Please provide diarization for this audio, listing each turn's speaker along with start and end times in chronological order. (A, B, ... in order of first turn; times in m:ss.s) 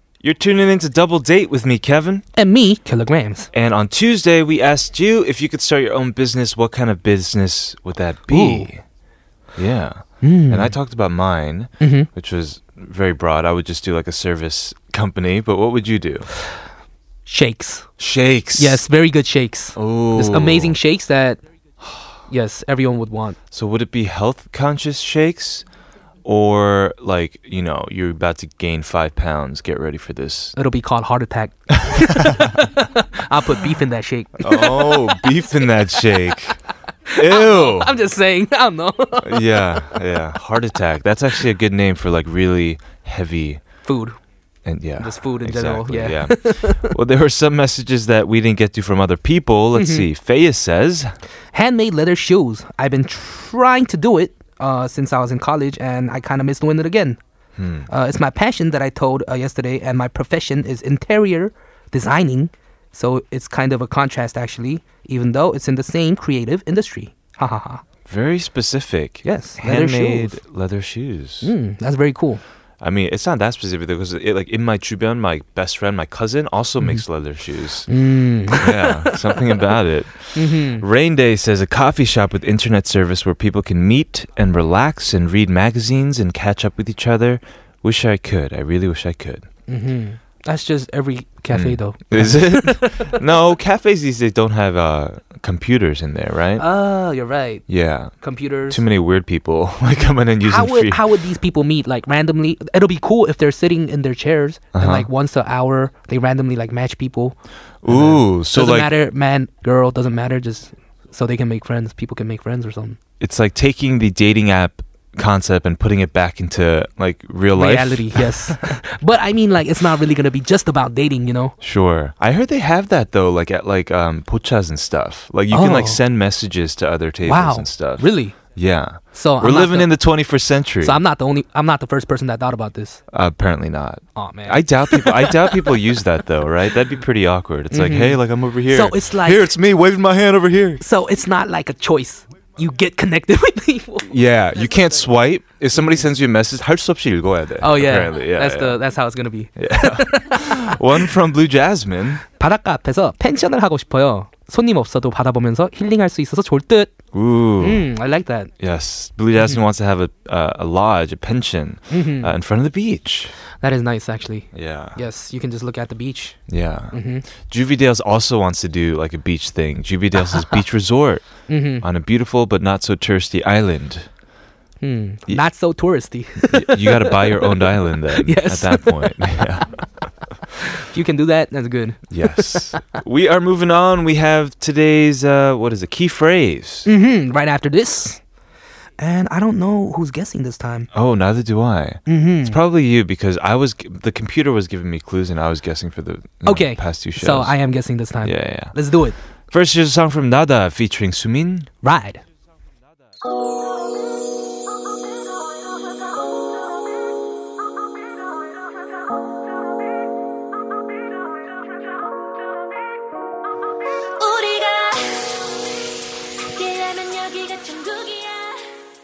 0:00.2-0:02.2 A
0:02.4-0:03.5 B
0:03.5-0:08.8 A
0:08.3-0:08.7 B
0:09.6-0:16.3 A
0:10.2-0:10.8 B
0:11.8-0:12.1 B
0:17.3-0:17.9 B
0:18.0-0:18.8 A
0:18.6-0:21.4 B
0:19.8-0:20.8 A
0:21.8-0:22.1 A
0:22.3-0:23.4 B
0:23.5-0:25.6 A
0:26.2-0:30.6 A
0:30.6-0:35.3 B
0:31.8-0:32.6 A
0:34.4-0:36.6 A
0:37.1-0:39.8 B
0:37.1-0:38.0 A
0:39.2-0:43.6 A
0:43.8-0:44.2 B
0:44.6-0:51.2 A
0:45.0-0:46.9 B
0:49.8-0:50.1 B
0:51.5-0:57.2 B
0:57.6-0:57.9 A
0:57.9-1:07.8 B
1:08.1-1:11.5 A
1:09.2-1:10.4 B
1:11.4-1:12.4 B
1:12.8-1:17.9 A
1:17.9-1:19.1 B
1:18.5-1:29.5 A
1:20.4-1:20.8 B
1:29.7-1:33.2 B
1:31.5-1:36.7 A
1:36.6-1:38.8 B
1:37.7-1:41.0 A
1:40.4-1:53.0 B
1:44.7-1:45.1 A
1:47.8-1:48.9 A
1:53.2-1:58.6 A
1:57.5-2:01.6 B
2:01.6-2:11.0 A
2:05.5-2:06.0 B
2:07.3-2:08.4 B
2:09.1-2:10.0 B
2:10.8-2:13.0 B
2:13.1-2:20.8 A
2:14.2-2:15.8 B
2:17.7-2:19.5 B
2:20.8-2:24.1 B
2:24.1-2:28.8 A
2:27.6-2:30.8 B
2:29.6-2:32.2 A
2:32.4-2:37.0 B
2:37.1-2:37.9 A
2:37.6-2:38.5 B
2:38.6-2:43.3 A
2:41.9-2:42.3 B
2:43.6-2:46.4 B
2:44.5-2:45.0 A
2:46.5-2:54.1 A
2:46.9-2:47.2 B
2:51.5-2:51.8 B
2:54.8-2:59.4 B
2:56.4-2:59.8 A
3:00.8-3:03.0 B
3:02.1-3:06.9 A
3:06.9-3:08.2 B
3:09.0-3:10.9 B
3:10.9-3:17.6 A
3:12.1-3:12.6 B
3:16.4-3:19.2 B
3:18.2-3:18.8 A
3:19.5-3:21.7 A
3:21.8-3:22.2 B
3:34.2-3:35.6 C
3:36.5-3:38.6 C